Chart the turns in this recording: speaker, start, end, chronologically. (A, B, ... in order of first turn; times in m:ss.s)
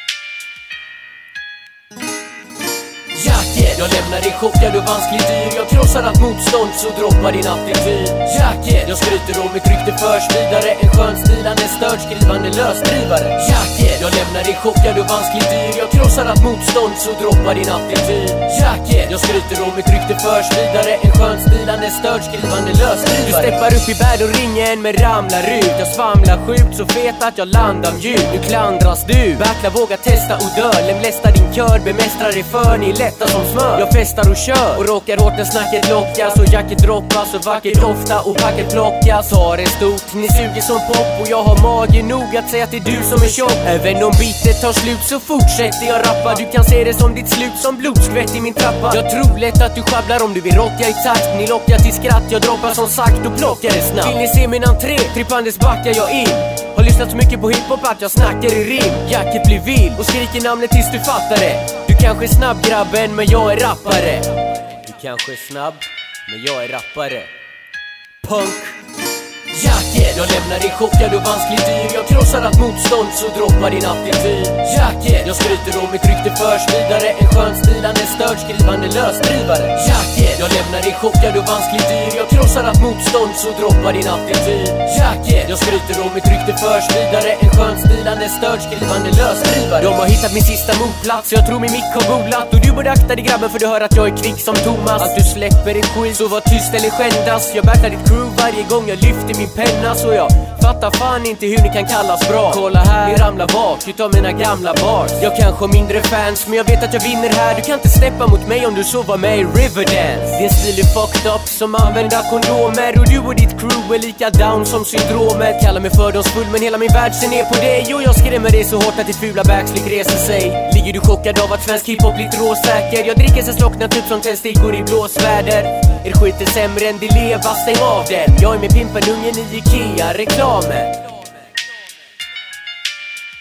0:03.1-1:07.3 A
1:08.2-1:08.8 A
1:09.5-2:11.1 A